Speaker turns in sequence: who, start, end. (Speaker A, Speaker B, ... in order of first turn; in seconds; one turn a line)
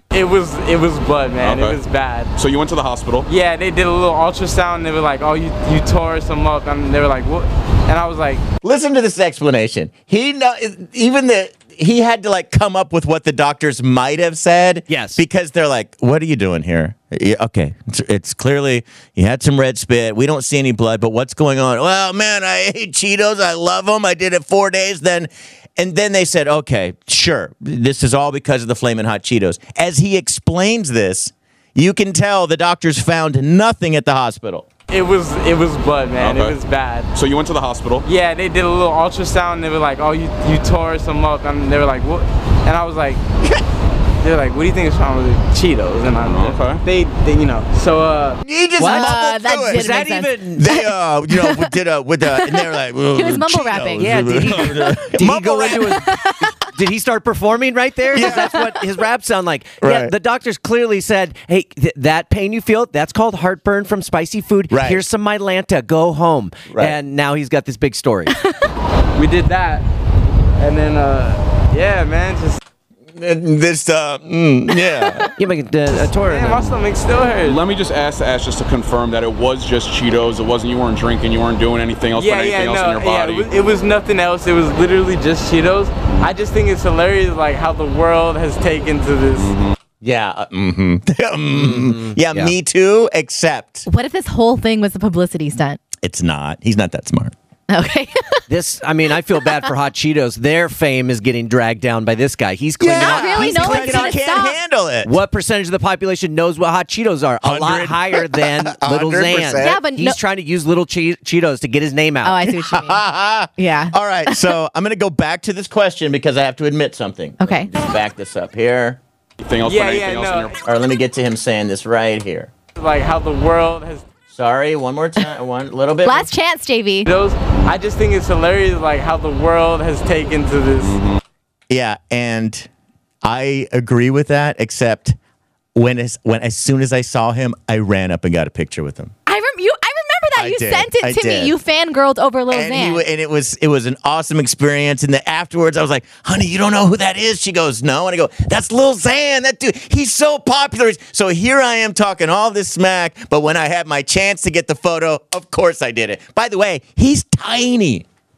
Speaker A: 0.1-2.3
Speaker B: 1.4-1.8
Speaker B: 2.4-3.3
Speaker A: 3.2-8.4
Speaker C: 8.6-34.6
Speaker D: 14.9-15.2
Speaker A: 34.9-37.1
Speaker B: 36.2-36.6
Speaker B: 37.1-38.0
Speaker A: 38.0-43.2
Speaker A: 44.2-48.4
Speaker B: 46.2-46.8
Speaker C: 48.4-49.9
Speaker D: 48.8-49.2
Speaker E: 48.8-51.7
Speaker D: 49.7-50.7
Speaker C: 50.5-56.1
Speaker E: 52.3-55.1
Speaker D: 54.0-68.3
Speaker E: 55.7-56.5
Speaker E: 58.1-58.7
Speaker C: 58.1-58.6
Speaker C: 59.8-60.1
Speaker C: 64.7-65.0
Speaker C: 66.7-67.0
Speaker E: 68.3-68.6
Speaker A: 69.2-69.8
Speaker A: 70.6-72.6
Speaker C: 73.2-75.3
Speaker D: 75.4-76.8
Speaker A: 75.9-77.6
Speaker B: 77.4-83.5
Speaker A: 82.1-89.5
Speaker B: 89.4-89.7
Speaker C: 90.0-93.8
Speaker D: 91.5-92.5
Speaker E: 93.9-95.8
Speaker C: 96.0-97.3
Speaker E: 97.7-98.4
Speaker D: 98.5-104.2
Speaker E: 99.4-99.7
Speaker C: 102.8-105.1
Speaker E: 102.9-104.6
Speaker D: 105.0-112.4
Speaker C: 107.4-109.8
Speaker E: 109.6-110.2
Speaker E: 112.2-113.0
Speaker C: 112.5-119.0
Speaker E: 113.6-114.5
Speaker E: 117.4-117.7
Speaker B: 119.4-120.6
Speaker A: 119.6-120.5
Speaker C: 120.6-122.5
Speaker A: 122.8-124.0
Speaker C: 124.3-126.3
Speaker E: 126.0-127.1
Speaker A: 127.0-131.0
Speaker B: 130.8-131.2
Speaker C: 131.7-132.7
Speaker C: 133.2-135.2
Speaker C: 135.7-139.1
Speaker E: 139.3-143.0
Speaker C: 140.4-141.5
Speaker C: 142.5-158.0